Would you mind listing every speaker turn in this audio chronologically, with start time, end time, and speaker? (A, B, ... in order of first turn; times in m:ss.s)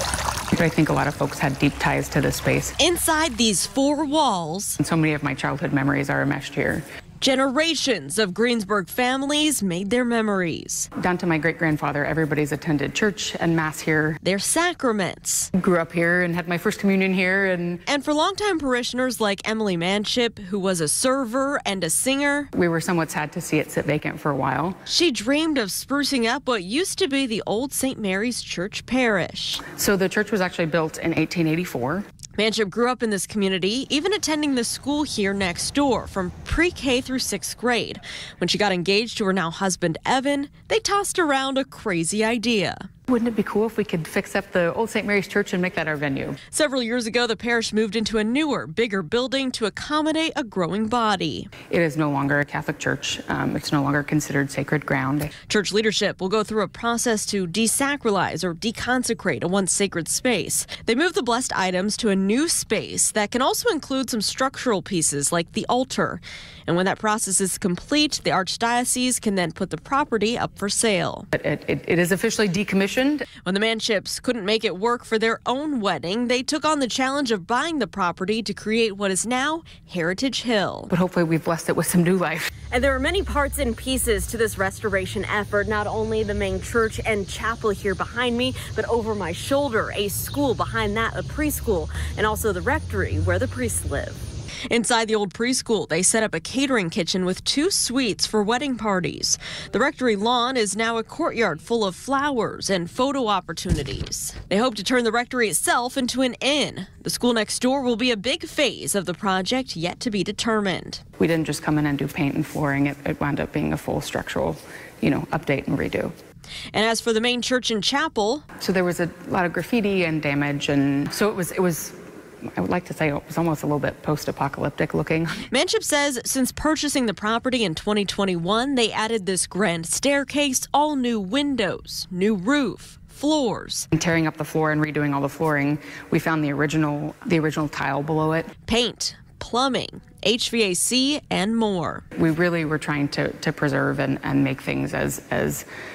0:00.5-0:02.8 A
0:02.8-0:04.8 B
0:04.8-0:06.8 A
0:07.2-0:10.9 B
0:11.0-0:14.2 A
0:14.2-0:15.5 B
0:15.6-0:17.8 A
0:17.9-0:22.5 B
0:22.5-0:24.8 A
0:24.9-0:29.6 B
0:29.6-0:32.0 A
0:32.4-0:42.9 B
0:43.1-0:46.4 A
0:46.5-0:51.5 B
0:51.7-0:55.3 A
0:55.5-1:11.3 B
1:11.3-1:13.3 A
1:13.4-1:20.9 B
1:20.9-1:22.5 A
1:22.7-1:51.0 B
1:51.2-1:56.1 A
1:56.7-1:58.4 B
1:58.6-2:02.0 A
2:02.6-2:05.5 A
2:05.5-2:13.9 B
2:13.9-2:18.5 A
2:18.7-2:22.0 B
2:22.2-2:25.7 A